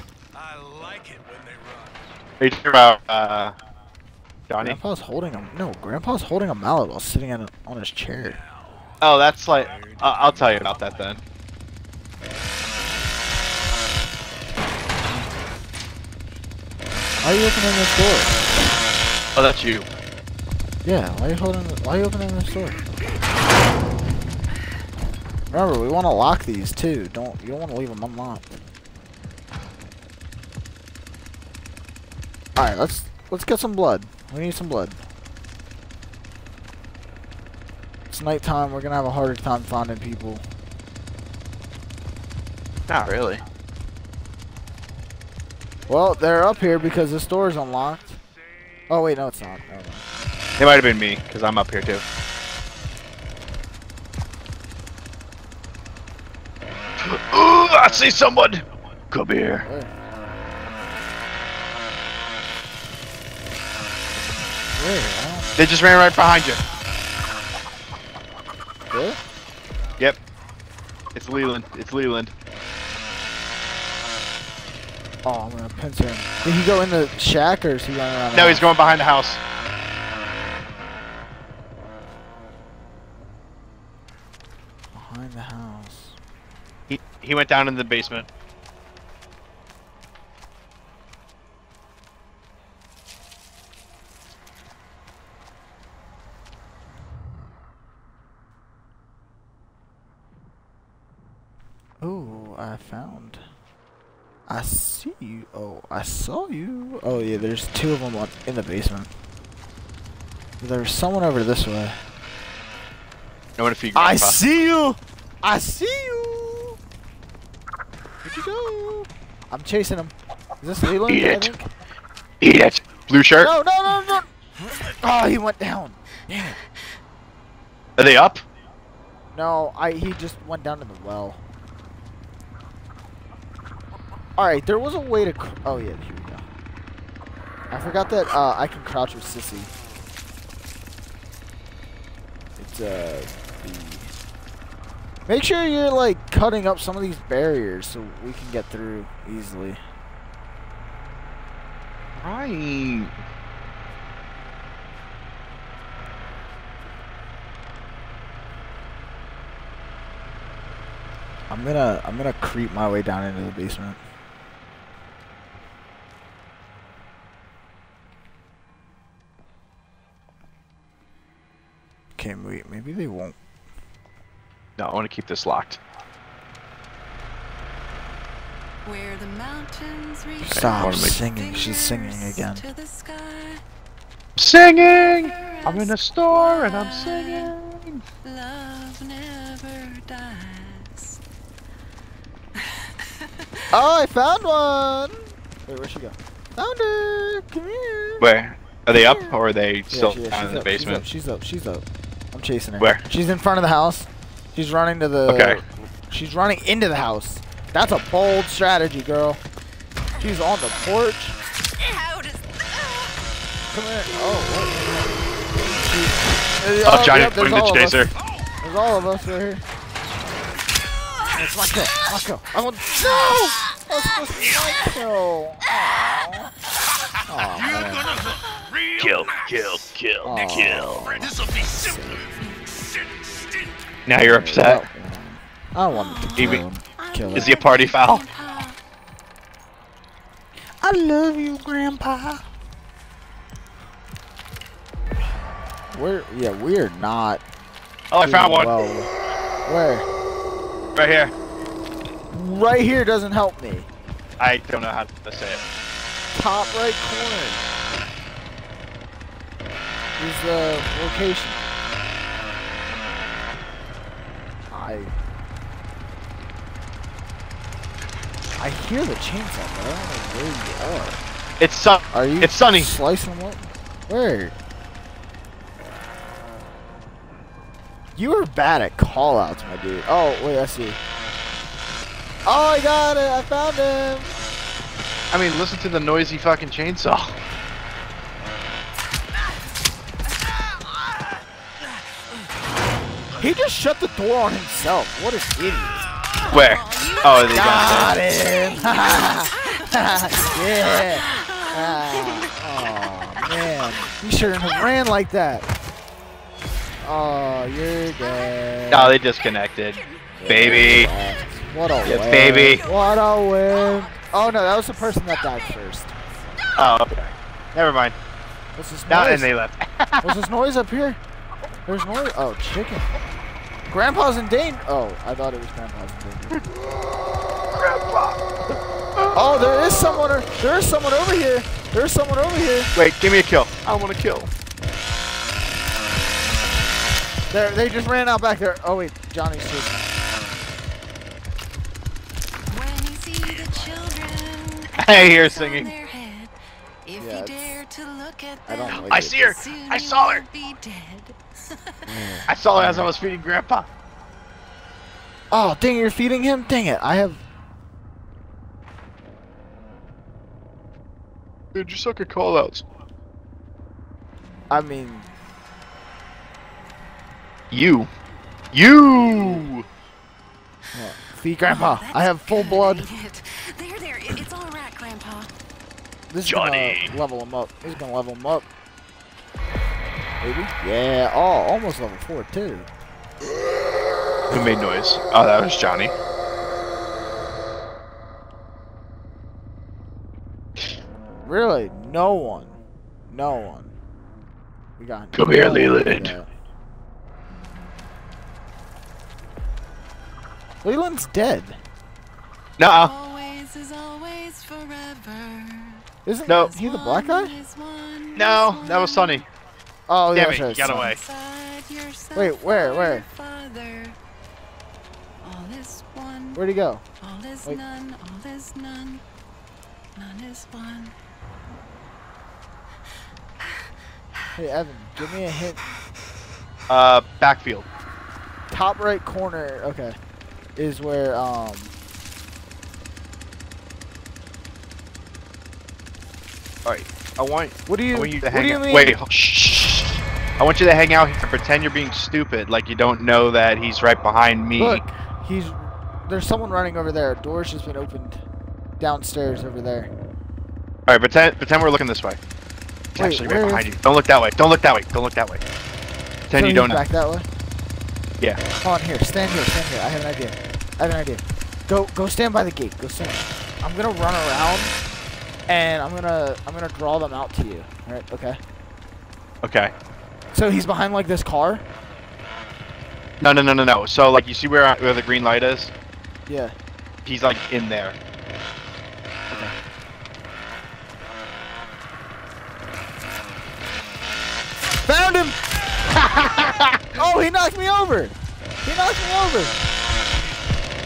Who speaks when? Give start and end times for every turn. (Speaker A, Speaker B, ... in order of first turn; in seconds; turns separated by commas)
Speaker A: 0.3-2.2, Speaker B: 2.4-3.5, Speaker B: 4.5-4.8, Speaker C: 4.6-8.4, Speaker A: 8.2-9.0, Speaker B: 9.0-11.2, Speaker A: 9.7-10.7, Speaker C: 17.2-18.4, Speaker B: 19.4-19.9, Speaker C: 20.9-22.8, Speaker C: 25.5-28.4, Speaker C: 32.6-35.0, Speaker C: 38.1-40.4, Speaker B: 42.9-43.4, Speaker C: 45.9-48.2, Speaker C: 48.9-50.0, Speaker B: 50.6-52.0, Speaker B: 57.0-59.7, Speaker C: 59.6-59.9, Speaker C: 64.8-65.5, Speaker B: 65.6-66.6, Speaker C: 68.9-69.2, Speaker B: 71.1-72.3, Speaker C: 75.2-78.7, Speaker B: 78.3-79.4, Speaker C: 84.9-86.2, Speaker B: 86.9-88.3, Speaker C: 102.0-103.4, Speaker C: 104.5-109.1, Speaker C: 110.6-112.0, Speaker B: 113.6-114.4, Speaker C: 114.0-116.8, Speaker C: 118.2-121.7, Speaker B: 121.1-121.5, Speaker B: 122.4-123.5, Speaker C: 123.4-126.6, Speaker B: 128.0-128.4, Speaker C: 129.3-131.4, Speaker C: 134.4-136.4, Speaker C: 137.7-139.7, Speaker C: 142.6-144.1, Speaker C: 145.3-149.8, Speaker B: 152.2-153.1, Speaker C: 161.5-164.0, Speaker C: 172.2-173.4, Speaker B: 174.8-175.8, Speaker D: 178.8-183.6, Speaker C: 180.5-182.6, Speaker B: 180.5-181.2, Speaker B: 184.4-188.0, Speaker D: 185.1-187.5, Speaker D: 188.2-191.2, Speaker D: 192.6-193.7, Speaker C: 193.7-198.3, Speaker B: 198.2-201.1, Speaker C: 199.0-199.3, Speaker C: 199.9-209.4, Speaker B: 205.3-205.6, Speaker C: 210.2-211.5, Speaker D: 211.8-213.2, Speaker C: 213.7-218.1, Speaker B: 216.8-218.1, Speaker C: 218.6-219.6, Speaker C: 221.3-226.5, Speaker C: 227.3-228.1, Speaker A: 227.5-229.9, Speaker B: 229.0-231.1, Speaker C: 230.2-232.3, Speaker A: 231.1-233.8, Speaker B: 234.1-234.8, Speaker C: 234.2-237.5, Speaker D: 235.9-238.8, Speaker B: 236.4-236.6, Speaker B: 237.3-238.2, Speaker C: 240.8-242.4, Speaker C: 245.9-247.4, Speaker B: 248.1-248.8, Speaker C: 248.2-249.1, Speaker C: 249.7-250.1, Speaker B: 250.9-251.3, Speaker C: 252.3-253.9, Speaker B: 254.4-255.6, Speaker C: 256.3-257.6, Speaker C: 260.2-261.6, Speaker C: 264.7-265.1, Speaker C: 268.6-271.2, Speaker B: 271.6-272.9, Speaker C: 272.1-274.5, Speaker C: 278.2-281.0, Speaker C: 282.5-284.4, Speaker B: 285.3-287.4, Speaker C: 293.4-296.1, Speaker D: 296.5-303.1, Speaker B: 296.5-298.1, Speaker C: 297.5-305.7, Speaker C: 307.0-309.2, Speaker B: 308.9-311.1, Speaker C: 310.4-316.2, Speaker B: 312.1-312.8, Speaker B: 316.8-318.2, Speaker C: 318.8-319.5, Speaker B: 319.1-320.4, Speaker C: 320.2-321.2, Speaker C: 321.9-323.1, Speaker C: 323.9-326.6, Speaker B: 327.7-329.5, Speaker C: 329.3-332.9, Speaker B: 332.9-334.5, Speaker C: 337.5-340.1, Speaker D: 342.7-352.1, Speaker B: 345.0-345.9, Speaker C: 347.2-347.8, Speaker C: 348.7-349.6, Speaker B: 348.9-350.4, Speaker C: 352.1-353.1, Speaker B: 352.5-353.9, Speaker C: 355.5-357.4, Speaker B: 361.7-362.8, Speaker C: 364.7-365.3, Speaker B: 367.7-368.1, Speaker B: 368.7-369.9, Speaker C: 370.9-373.1, Speaker D: 371.7-375.5, Speaker C: 376.3-378.7, Speaker B: 376.5-377.1, Speaker C: 380.4-382.9, Speaker B: 384.5-386.1, Speaker C: 391.4-393.9, Speaker C: 395.0-396.5, Speaker B: 395.3-396.3, Speaker C: 400.8-401.8, Speaker B: 402.8-403.1, Speaker D: 402.9-409.4, Speaker C: 406.3-407.5, Speaker B: 408.4-409.4, Speaker C: 410.1-411.1, Speaker B: 410.3-411.2, Speaker D: 410.8-414.2, Speaker C: 412.4-413.2, Speaker D: 415.4-416.6, Speaker C: 416.6-417.0, Speaker D: 417.2-419.2, Speaker D: 420.2-421.1, Speaker D: 423.6-424.5, Speaker C: 424.6-425.8, Speaker B: 426.9-427.9, Speaker C: 428.7-430.2, Speaker C: 430.8-431.9, Speaker B: 436.9-445.1, Speaker C: 437.9-439.2, Speaker C: 444.8-448.4, Speaker C: 449.0-450.1, Speaker B: 451.1-452.4, Speaker B: 453.1-455.6, Speaker C: 453.2-453.9, Speaker B: 456.5-457.0, Speaker C: 456.5-457.5, Speaker C: 458.8-464.9, Speaker C: 465.7-468.6, Speaker B: 469.6-469.9, Speaker C: 470.5-471.8, Speaker B: 473.4-475.9, Speaker C: 476.5-476.8, Speaker B: 477.2-478.2, Speaker C: 485.1-485.6, Speaker C: 486.3-489.8